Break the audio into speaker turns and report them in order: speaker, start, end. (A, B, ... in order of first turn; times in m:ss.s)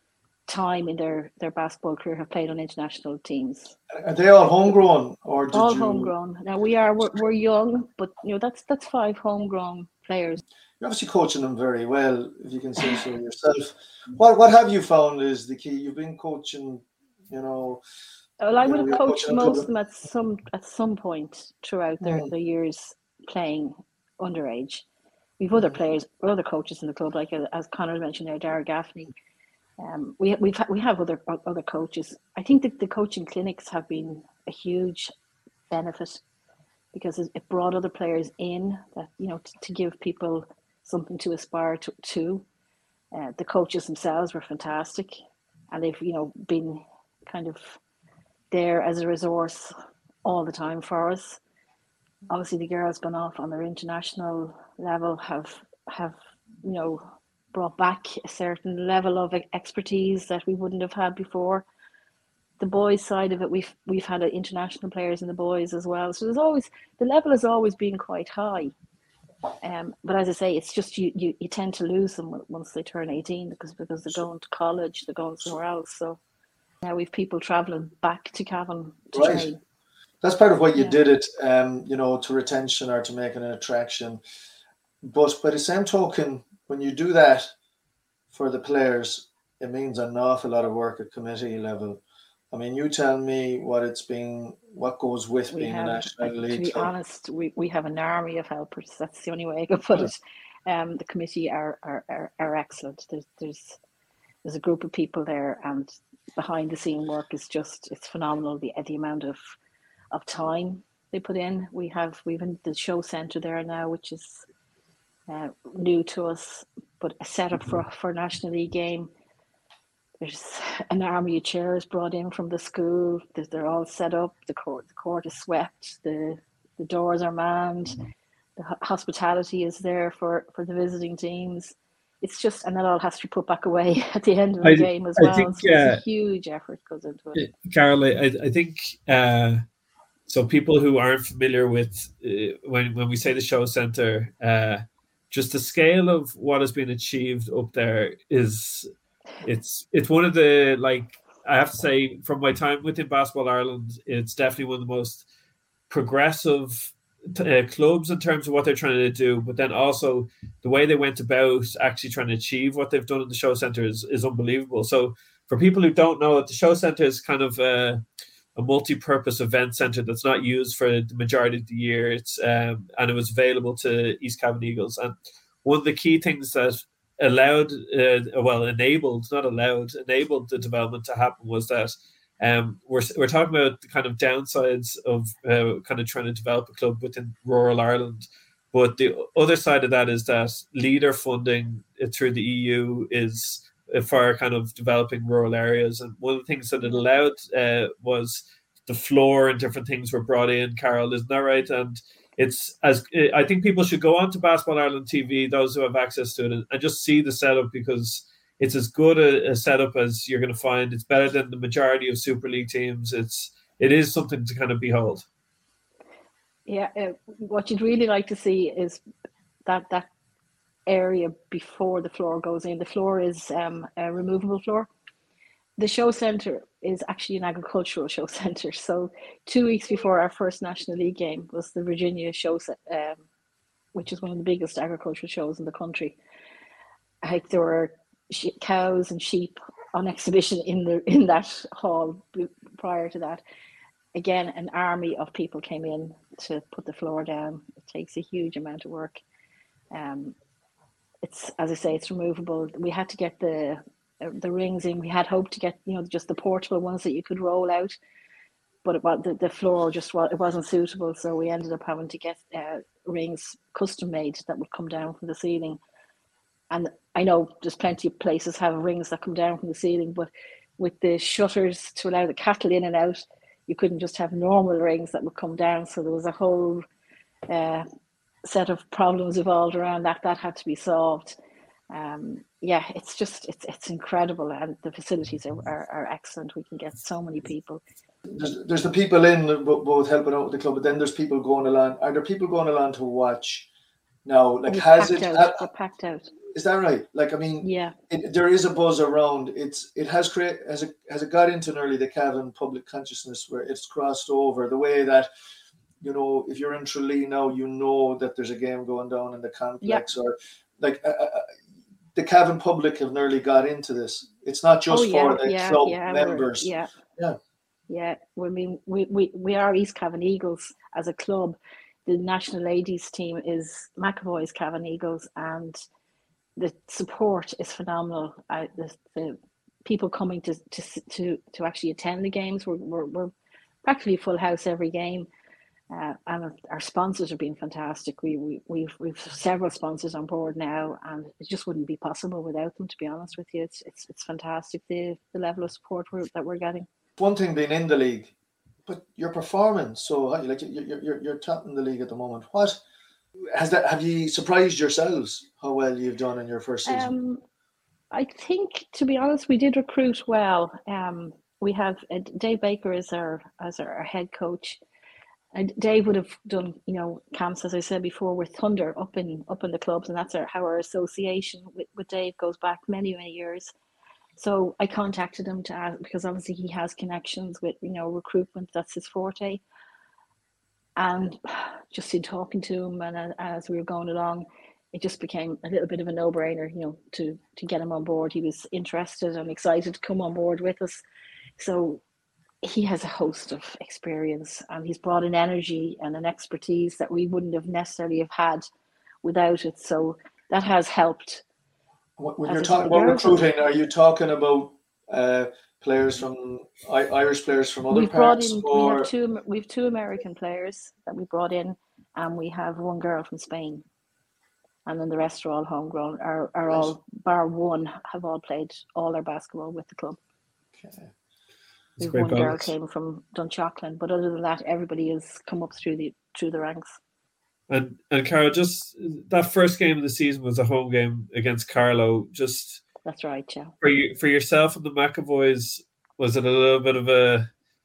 0:00.5-0:03.8 A
0:03.9-0:06.1 B
0:05.5-0:10.4 A
0:10.8-0:17.8 B
0:18.4-0:24.8 A
0:18.6-0:19.7 B
0:22.0-0:22.3 B
0:25.4-0:29.1 A
0:29.8-0:35.1 A
0:35.7-0:36.2 A
0:36.9-0:42.4 A
0:43.1-0:45.2 A
0:45.7-0:47.8 A
0:48.5-0:49.7 A
0:50.2-0:51.4 A
0:52.3-1:01.7 A
1:02.6-1:08.7 A
1:09.6-1:16.2 A
1:16.8-1:19.6 A
1:19.1-1:19.5 B
1:20.2-1:24.2 B
1:20.8-1:21.0 A
1:25.0-1:27.5 B
1:28.3-1:36.9 B
1:35.5-1:43.8 A
1:44.4-1:49.4 A
1:50.1-1:54.5 A
1:55.3-1:59.1 A
2:00.2-2:08.0 A
2:08.6-2:17.5 A
2:14.6-2:16.0 C
2:17.4-2:19.6 C
2:20.3-2:28.9 C
2:29.4-2:35.3 C
2:35.9-2:48.0 C
2:48.6-3:35.2 C
3:36.7-3:39.0 A
3:39.7-3:40.1 A
3:40.9-3:44.9 A
3:45.8-3:53.2 A
3:54.0-3:56.2 A
3:57.2-4:03.4 A
4:04.1-4:09.2 A
4:09.9-4:10.4 A
4:11.2-4:18.0 A
4:18.8-4:25.8 A
4:26.7-4:36.8 A
4:37.5-4:37.8 A
4:38.4-4:41.4 A
4:41.9-4:47.8 A
4:48.3-4:53.7 B
4:54.2-4:55.7 B
4:54.7-4:56.3 A
4:56.5-5:05.3 B
4:57.6-4:57.9 A
5:06.0-5:11.5 B
5:12.2-5:17.4 B
5:14.9-5:16.9 A
5:17.9-5:25.8 A
5:26.6-5:33.3 A
5:33.8-5:35.3 A
5:35.9-5:46.9 A
5:47.2-5:48.3 B
5:48.9-5:52.8 B
5:53.5-5:57.1 B
5:56.9-5:57.4 A
5:58.1-6:04.8 A
6:05.5-6:13.7 A
6:14.4-6:19.6 A
6:21.0-6:31.0 A
6:31.6-6:32.0 A
6:32.6-6:38.7 A
6:39.2-6:41.4 A
6:42.2-6:49.1 B
6:42.5-6:43.4 A
6:47.9-6:53.8 A
6:54.9-7:00.2 A
7:00.8-7:01.1 B
7:02.0-7:02.7 C
7:02.0-7:07.0 A
7:07.7-7:12.8 C
7:13.0-7:13.7 A
7:13.8-7:17.5 C